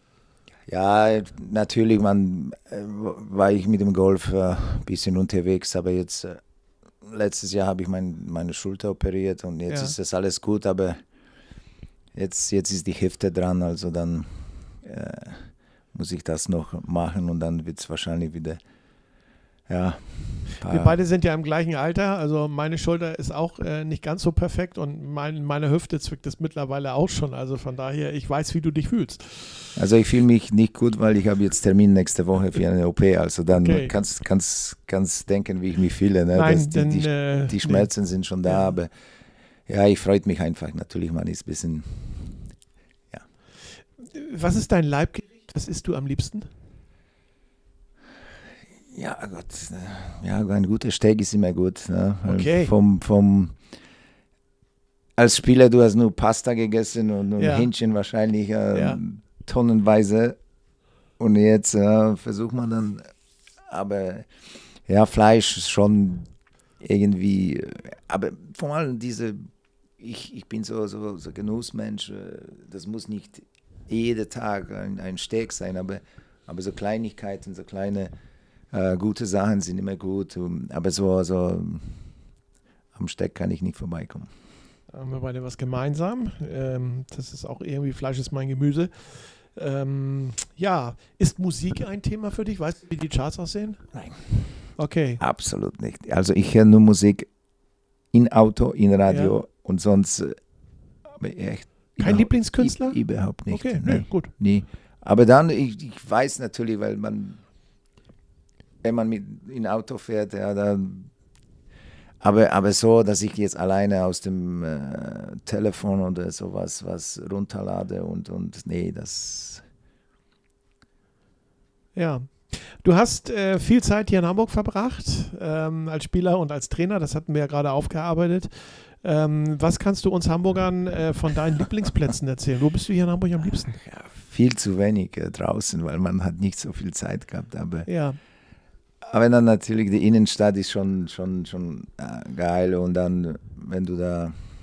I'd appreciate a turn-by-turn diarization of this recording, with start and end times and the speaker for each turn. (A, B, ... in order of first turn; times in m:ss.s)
0:00.7-0:06.4 A
0:07.0-0:11.0 A
0:09.7-0:09.9 B
0:12.1-0:18.6 A
0:19.7-0:21.0 A
0:20.6-0:29.7 B
0:29.8-0:38.9 A
0:33.5-0:33.9 B
0:36.3-0:37.9 B
0:38.4-0:38.7 B
0:39.7-0:42.5 A
0:44.0-0:46.5 B
0:48.9-0:53.6 A
0:52.2-0:52.7 B
0:55.2-1:00.4 A
0:57.4-0:57.7 B
0:58.7-0:59.0 B
1:01.2-1:03.1 A
1:03.7-1:04.3 A
1:04.8-1:09.4 A
1:10.0-1:18.1 A
1:18.7-1:22.0 A
1:22.9-1:24.3 A
1:24.9-1:33.8 B
1:33.9-1:37.3 A
1:34.8-1:35.2 B
1:38.1-1:40.4 A
1:39.0-1:39.4 B
1:41.2-1:47.4 A
1:42.0-1:44.3 B
1:48.8-1:51.1 A
1:52.2-1:59.6 A
2:01.9-2:13.8 B
2:13.8-2:17.9 A
2:17.8-2:18.2 B
2:19.0-2:24.4 A